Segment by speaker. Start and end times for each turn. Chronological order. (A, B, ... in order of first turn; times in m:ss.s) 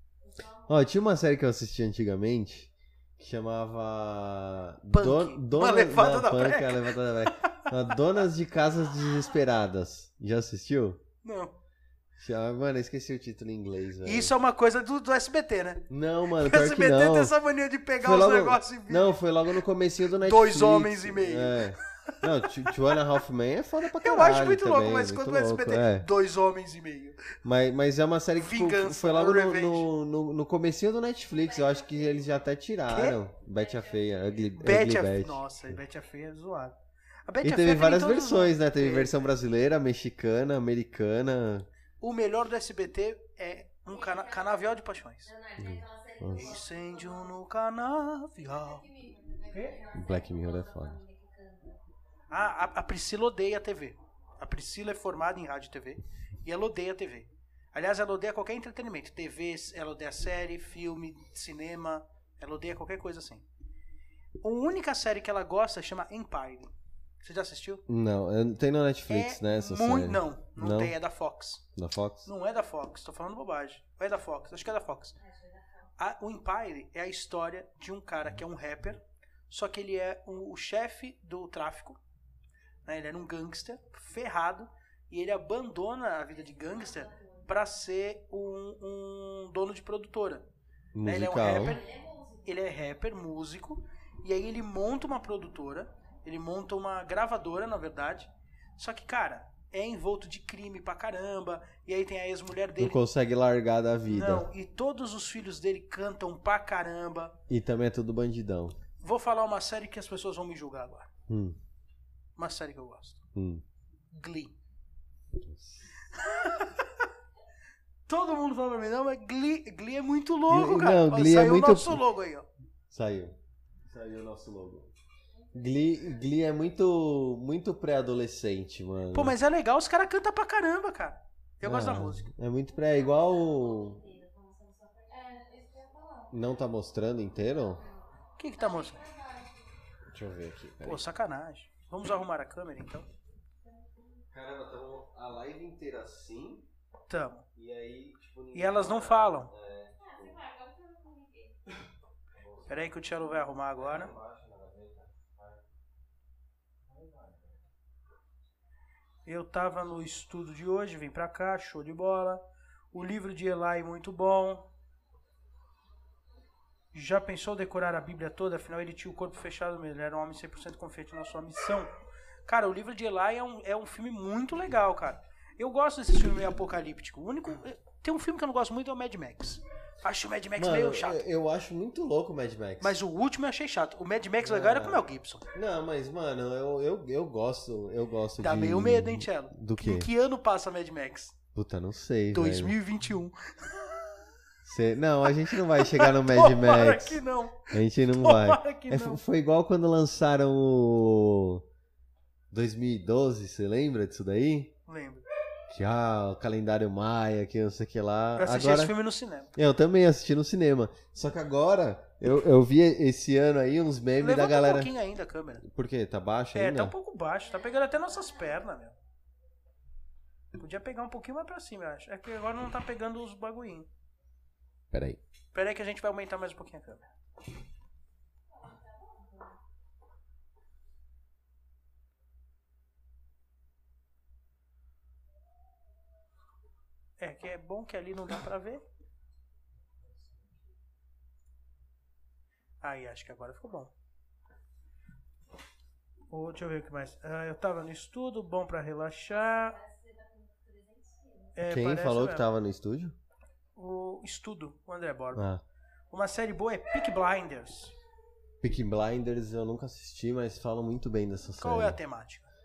0:00.2-0:00.8 A
0:00.7-0:11.0 B
0:04.9-0:07.7 C
0:08.9-0:09.2 A
0:11.2-0:11.5 C
0:12.2-0:14.3 B
0:14.0-0:19.2 C
0:15.9-0:17.3 B
0:18.0-0:26.1 B
0:20.2-0:23.0 C
0:24.0-0:27.4 C
0:27.4-0:35.8 B
0:28.4-0:29.9 C
0:31.3-0:32.5 A
0:32.9-0:33.2 C
0:33.4-0:34.6 A
0:34.6-0:39.2 C
0:37.4-0:41.7 B
0:42.0-0:45.3 C
0:43.9-0:47.4 A
0:45.6-0:46.5 B
0:46.3-0:48.8 C
0:48.4-0:51.8 A
0:49.5-0:49.8 C
0:49.9-0:51.0 B
0:52.3-1:03.5 C
1:04.4-1:07.8 C
1:07.9-1:11.0 B
1:09.1-1:11.6 C
1:11.8-1:12.3 B
1:12.2-1:15.2 C
1:15.2-1:15.9 A
1:16.0-1:22.0 C
1:22.8-1:30.5 C
1:26.3-1:27.5 A
1:30.9-1:31.8 B
1:31.0-1:31.8 C
1:31.4-1:32.8 A
1:32.4-1:43.0 C
1:42.8-1:44.5 B
1:44.1-1:47.4 C
1:47.5-1:48.8 B
1:49.0-1:51.1 C
1:51.3-1:51.6 B
1:52.4-1:53.2 C
1:53.4-1:53.6 B
1:54.1-1:54.6 C
1:55.4-1:55.9 B
1:56.1-1:57.1 C
1:58.1-2:02.5 C
2:00.5-2:02.0 B
2:02.9-2:03.3 B
2:03.9-2:04.9 B
2:05.4-2:06.2 A
2:05.5-2:09.4 B
2:09.1-2:12.3 C
2:11.6-2:14.0 B
2:12.8-2:16.3 A
2:16.3-2:17.8 B
2:17.7-2:19.6 A
2:18.4-2:19.0 C
2:20.1-2:21.0 B
2:20.8-2:23.1 C
2:23.7-2:24.1 A
2:24.3-2:26.7 B
2:27.1-2:27.4 C
2:27.6-2:30.4 B
2:28.5-2:29.5 C
2:30.0-2:31.6 A
2:32.4-2:33.1 B
2:32.7-2:34.1 C
2:33.7-2:35.6 B
2:36.9-2:37.6 B
2:39.2-2:42.4 C
2:42.9-2:44.7 C
2:46.9-2:51.9 C
2:52.5-3:01.2 C
3:00.6-3:03.0 B
3:02.8-3:05.5 C
3:04.4-3:10.1 B
3:08.4-3:11.4 C
3:11.5-3:12.8 B
3:12.3-3:14.3 C
3:14.6-3:21.6 B
3:15.3-3:19.2 C
3:22.5-3:24.7 B
3:24.9-3:25.2 C
3:25.7-3:29.0 B
3:28.4-3:29.5 C
3:29.6-3:34.9 B
3:34.2-3:35.6 C
3:35.6-3:37.0 B
3:36.6-3:39.0 C
3:37.4-3:38.6 A
3:40.6-3:43.9 C
3:44.9-3:45.2 B
3:45.5-3:47.1 C
3:48.5-3:49.6 A
3:57.2-3:58.8 C
4:02.8-4:03.9 C
4:06.3-4:09.8 C
4:09.3-4:11.6 A
4:11.6-4:12.4 C
4:11.7-4:13.2 B
4:13.8-4:15.4 C
4:15.4-4:15.6 B
4:16.1-4:18.0 C
4:18.6-4:22.0 B
4:21.6-4:22.5 C